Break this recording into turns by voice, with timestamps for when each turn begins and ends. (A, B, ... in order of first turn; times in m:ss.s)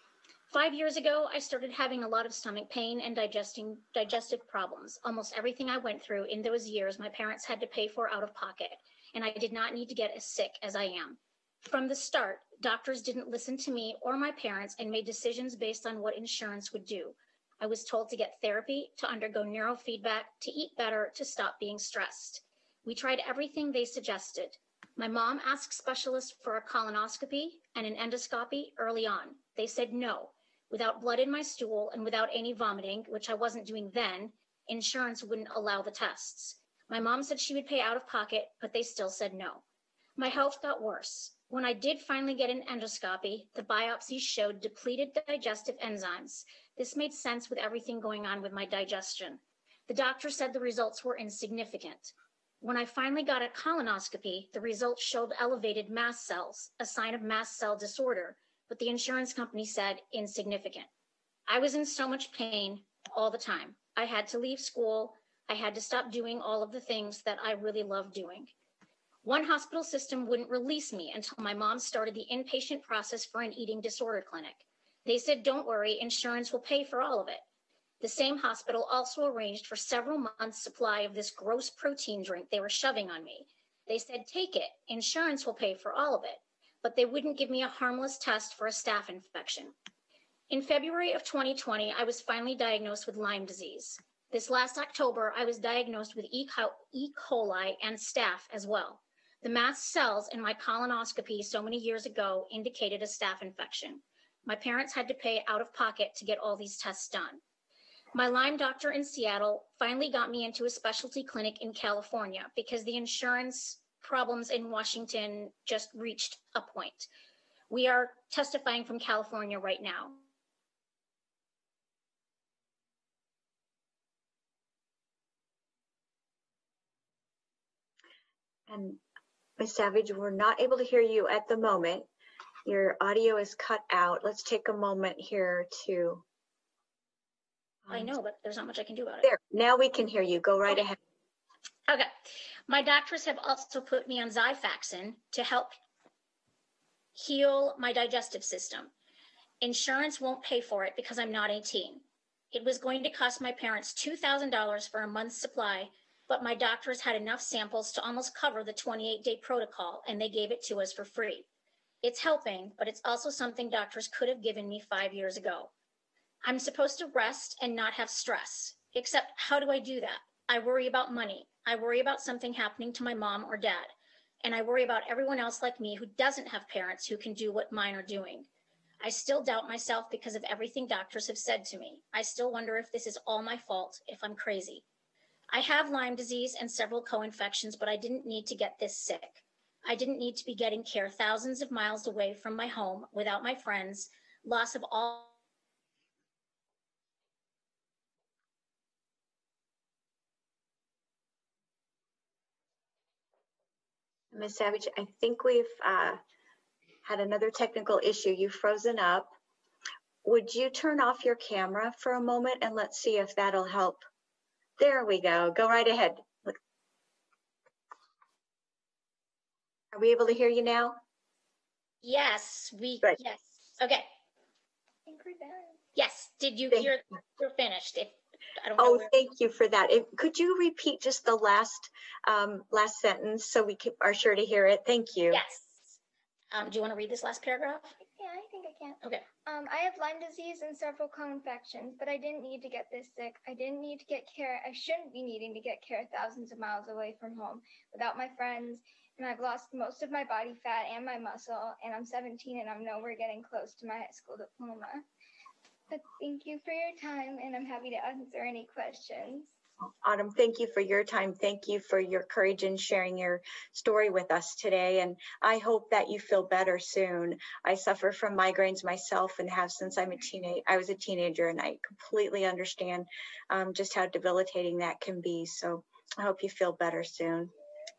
0:00.5-0:39.6 A
0:40.2-1:00.9 A
1:01.5-1:08.5 A
1:09.2-1:17.4 A
1:18.0-1:29.7 A
1:30.5-1:47.4 A
1:48.1-1:57.1 A
1:57.7-2:00.2 A
2:08.7-2:09.0 B
2:09.6-2:12.1 B
2:12.6-2:16.2 B
2:17.9-2:18.1 B
2:17.9-2:19.2 A
2:19.2-2:21.0 B
2:21.9-2:25.8 A
2:27.2-2:28.9 A
2:29.6-2:41.4 A
2:42.0-2:45.7 A
2:46.4-2:53.9 A
2:54.4-2:58.5 A
2:59.0-3:04.8 A
3:05.5-3:15.3 A
3:24.3-3:26.2 B
3:27.0-3:29.3 B
3:30.2-3:34.0 B
3:34.8-3:36.6 B
3:39.9-3:41.0 B
3:42.0-3:44.1 A
3:45.1-3:45.8 C
3:45.9-3:49.1 A
3:48.8-3:55.4 B
3:55.3-3:56.0 A
3:56.5-3:58.0 A
3:58.0-4:15.0 C
3:59.0-3:59.3 A
4:15.9-4:19.5 C
4:20.0-4:37.5 B